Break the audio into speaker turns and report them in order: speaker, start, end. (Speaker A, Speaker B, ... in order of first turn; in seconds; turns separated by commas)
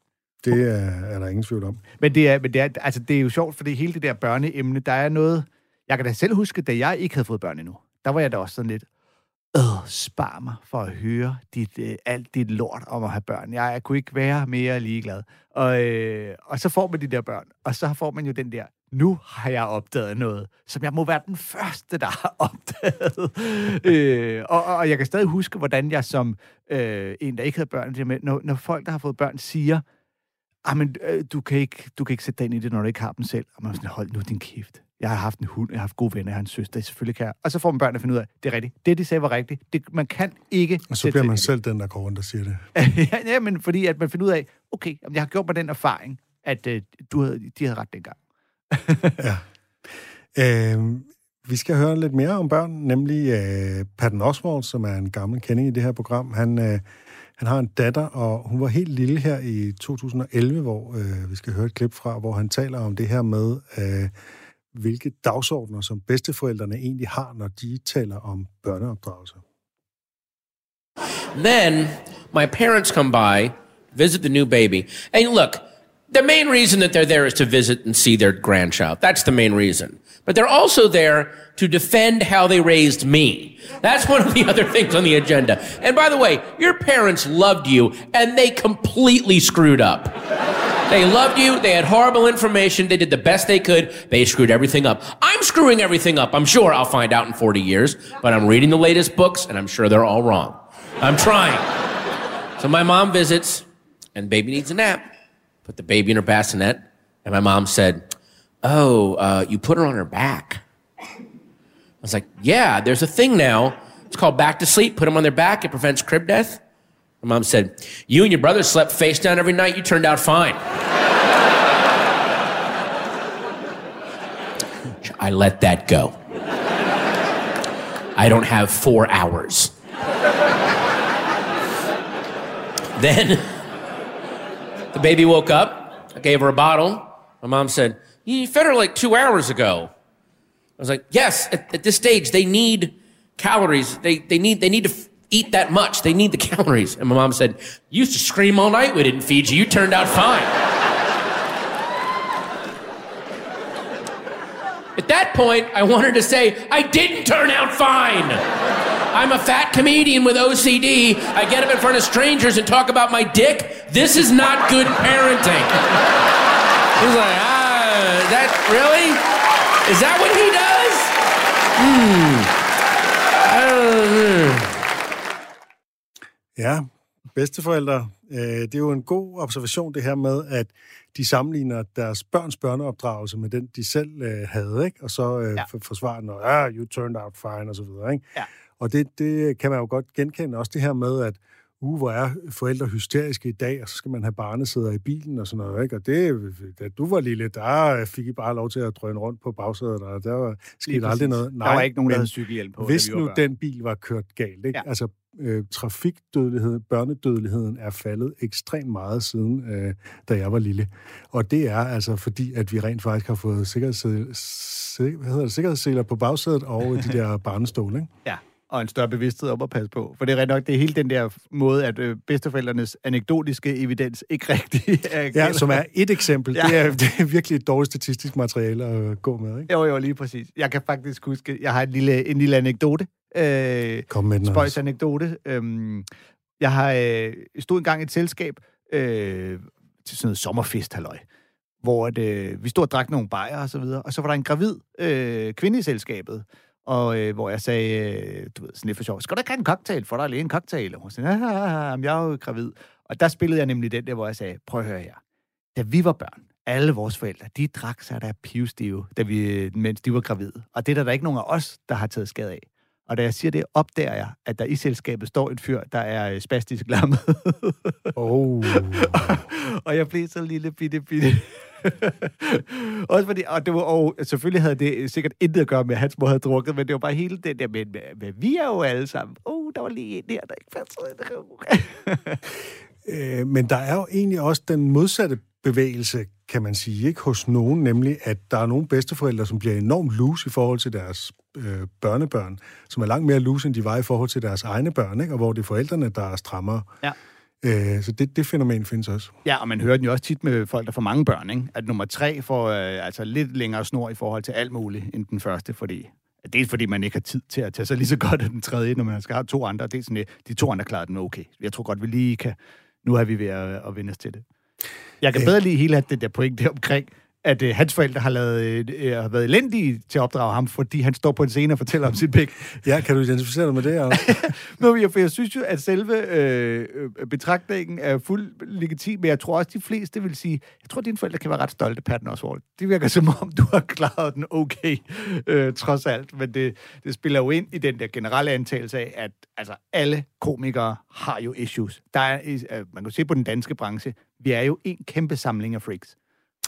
Speaker A: 0.4-1.8, Speaker B: 2.0-8.9, Speaker B: 9.5-29.8, Speaker B: 30.6-41.5, Speaker A: 40.9-42.7, Speaker B: 42.8-48.2, Speaker B: 48.7-49.2, Speaker A: 49.2-49.4, Speaker A: 50.4-56.9, Speaker A: 57.4-64.1, Speaker A: 64.7-69.4, Speaker C: 71.3-90.1, Speaker C: 90.9-101.7, Speaker C: 102.6-105.1, Speaker C: 105.7-108.0, Speaker C: 108.6-110.6, Speaker C: 112.0-116.6, Speaker C: 117.2-120.6, Speaker C: 125.0-126.2, Speaker C: 128.2-129.7, Speaker C: 133.0-133.6, Speaker C: 134.9-139.9, Speaker C: 140.8-150.5, Speaker C: 155.0-158.4, Speaker C: 159.1-166.0, Speaker C: 167.0-169.2, Speaker C: 169.8-171.1, Speaker C: 171.8-172.5, Speaker C: 173.4-174.7, Speaker A: 176.6-188.2, Speaker A: 188.8-218.1, Speaker B: 200.9-203.4, Speaker B: 218.2-225.8, Speaker A: 225.3-229.7, Speaker B: 226.6-226.9, Speaker B: 229.7-236.1, Speaker A: 234.1-234.8, Speaker B: 236.6-241.2, Speaker B: 241.8-255.2, Speaker B: 255.8-268.2, Speaker A: 268.2-269.4, Speaker B: 268.7-282.4, Speaker A: 283.0-296.9, Speaker A: 297.6-299.3, Speaker B: 299.4-314.4, Speaker B: 315.2-322.8, Speaker A: 322.8-324.5, Speaker B: 324.1-346.1